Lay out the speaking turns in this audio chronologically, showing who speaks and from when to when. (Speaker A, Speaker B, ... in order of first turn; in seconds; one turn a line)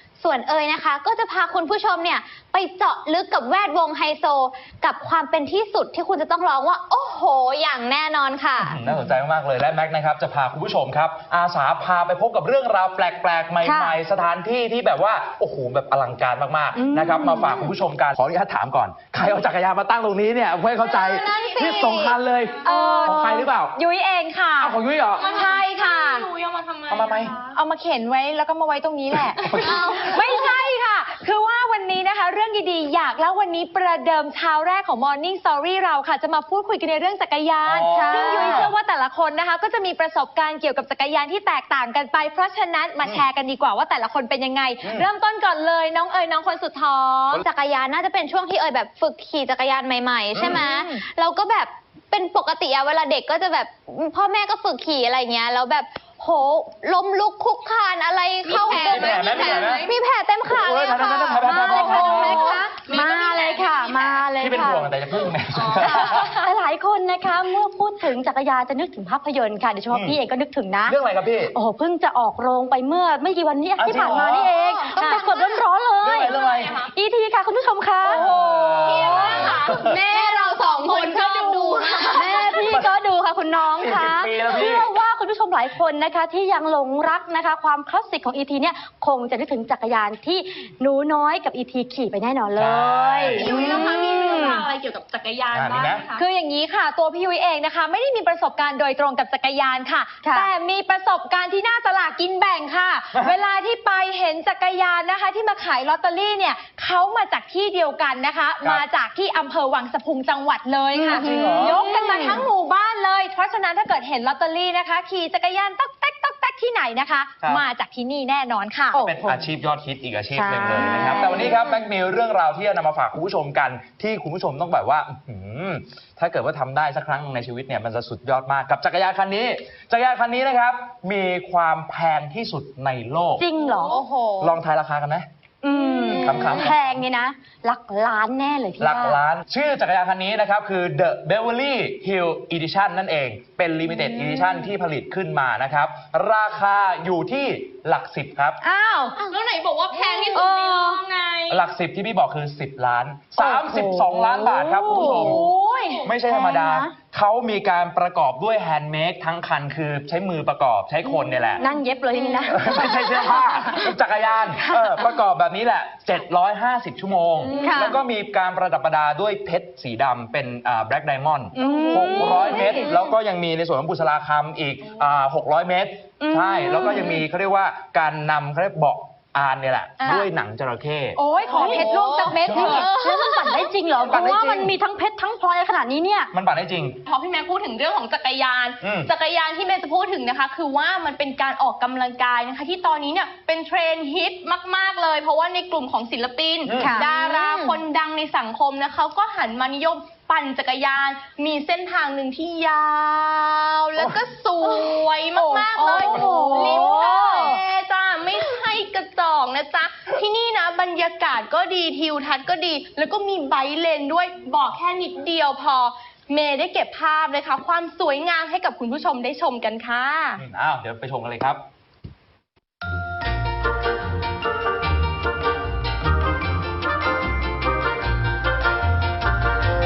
Speaker A: 0.2-8.8
Speaker B: 8.6-23.7
Speaker C: 13.6-14.0
Speaker C: 16.7-17.5
Speaker D: 20.8-23.1
Speaker A: 21.7-22.0
Speaker E: 22.6-26.3
Speaker C: 22.7-23.5
Speaker B: 24.6-25.3
Speaker D: 25.2-27.5
Speaker B: 26.9-27.3
Speaker E: 27.5-47.4
Speaker D: 29.4-30.5
Speaker B: 37.6-38.7
Speaker C: 37.9-38.7
Speaker A: 47.4-61.4
Speaker E: 50.4-51.0
Speaker D: 58.4-59.9
Speaker B: 58.5-59.9
Speaker B: 60.4-62.4
Speaker E: 61.4-62.9
Speaker C: 61.4-64.9
Speaker D: 62.1-64.0
Speaker B: 64.3-66.3
Speaker D: 65.5-66.5
Speaker C: 65.7-71.0
Speaker B: 69.9-70.2
Speaker B: 70.8-71.5
Speaker C: 71.5-78.8
Speaker B: 73.8-74.5
Speaker D: 74.3-75.5
Speaker E: 75.0-75.2
Speaker B: 76.0-76.8
Speaker D: 76.2-76.9
Speaker B: 78.0-80.0
Speaker E: 78.4-79.5
Speaker D: 78.8-82.6
Speaker C: 81.0-94.7
Speaker B: 82.6-82.9
Speaker B: 83.6-84.9
Speaker B: 92.5-93.6
Speaker D: 93.3-96.2
Speaker E: 93.5-94.0
Speaker B: 95.5-96.1
Speaker E: 96.1-119.4
Speaker C: 100.2-100.5
Speaker C: 110.9-112.4
Speaker B: 111.1-111.8
Speaker B: 119.0-133.4
Speaker C: 120.5-121.4
Speaker E: 121.1-121.5
Speaker C: 133.4-134.0
Speaker D: 133.7-134.6
Speaker B: 134.4-135.2
Speaker C: 135.6-139.2
Speaker D: 136.1-136.6
Speaker B: 136.2-137.0
Speaker B: 138.8-148.6
Speaker C: 148.6-149.1
Speaker D: 149.2-151.6
Speaker C: 150.4-150.9
Speaker B: 151.5-155.4
Speaker C: 153.4-156.9
Speaker E: 153.4-153.9
Speaker E: 154.8-156.0
Speaker B: 156.0-161.6
Speaker C: 161.6-163.9
Speaker B: 162.5-181.2
Speaker C: 164.7-165.0
Speaker C: 167.4-168.0
Speaker C: 171.5-173.0
Speaker C: 176.2-177.2
Speaker C: 181.2-186.3
Speaker E: 181.4-182.6
Speaker D: 181.6-183.7
Speaker B: 184.0-184.4
Speaker B: 186.3-187.0
Speaker D: 187.1-220.4
Speaker B: 188.8-189.1
Speaker B: 196.7-196.9
Speaker C: 196.7-197.5
Speaker E: 205.4-207.6
Speaker C: 205.7-207.5
Speaker B: 220.4-221.6